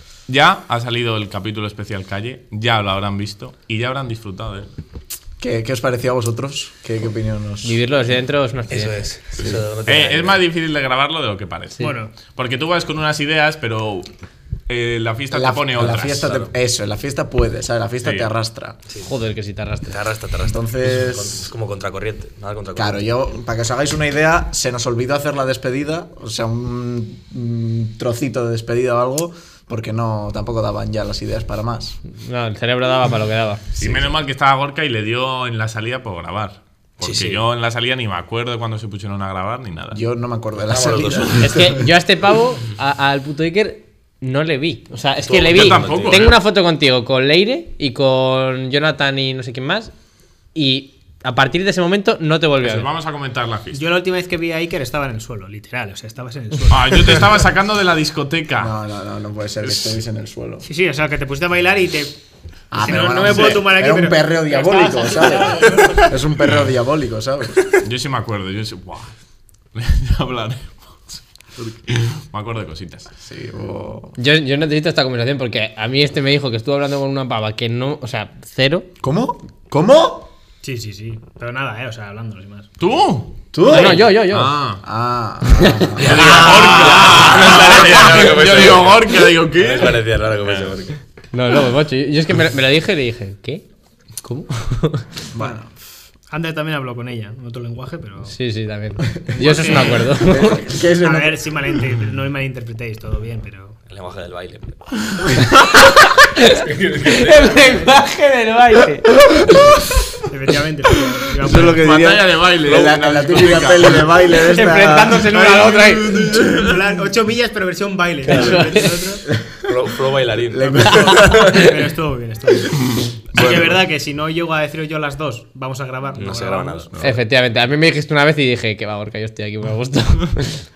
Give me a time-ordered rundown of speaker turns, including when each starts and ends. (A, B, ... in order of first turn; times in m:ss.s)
0:00.3-0:04.7 A
0:05.4-0:07.8 B
0:07.6-0:09.0 C
0:08.7-0:10.4 D
0:09.4-0:14.1 A
0:11.8-0:12.2 E
0:14.7-0:16.3 A
0:15.3-0:18.8 B
0:16.2-0:16.5 D
0:18.0-0:18.3 A
0:19.0-0:20.0 C
0:19.9-0:23.1 D
0:20.4-0:21.5 B
0:22.8-0:32.0 B
0:32.1-0:33.7 C
0:33.8-0:40.0 A
0:37.0-0:37.4 D
0:39.9-0:41.9 B
0:40.7-0:41.5 D
0:41.4-0:49.9 C
0:45.2-0:46.2 D
0:45.5-0:46.4 A
0:50.5-0:52.9 C
0:52.6-0:53.8 A
0:53.7-0:57.4 E
0:56.7-0:58.7 A
0:58.6-1:00.6 B
1:00.6-1:02.2 E
1:02.7-1:07.7 B
1:02.8-1:06.1 E
1:07.8-1:09.1 A
1:09.7-1:13.1 A
1:13.2-1:14.2 B
1:14.2-1:18.9 C
1:19.0-1:20.3 B
1:20.6-1:22.7 E
1:22.8-1:24.8 A
1:23.5-1:24.2 B
1:23.6-1:24.6 C
1:24.8-1:26.4 B
1:25.6-1:26.8 C
1:25.9-1:31.0 D
1:26.0-1:30.7 A
1:31.3-1:33.6 C
1:34.2-1:35.1 C
1:35.3-1:35.7 B
1:36.3-1:38.3 E
1:38.3-1:40.7 C
1:39.2-1:43.8 E
1:40.2-1:41.4 B
1:43.9-1:44.9 D
1:45.2-1:45.5 A
1:45.6-1:49.7 C
1:46.5-1:47.8 D
1:50.3-1:51.8 E
1:51.4-1:55.3 B
1:51.5-1:54.3 A
1:54.4-1:56.3 C
1:54.6-1:55.3 E
1:55.2-1:56.9 A
1:56.2-1:59.3 E
1:58.3-1:59.0 C
1:58.3-1:58.6 D
1:59.5-2:01.2 D
2:00.5-2:01.7 B
2:00.6-2:06.9 E
2:01.2-2:01.6 C
2:06.1-2:07.1 D
2:07.0-2:10.6 C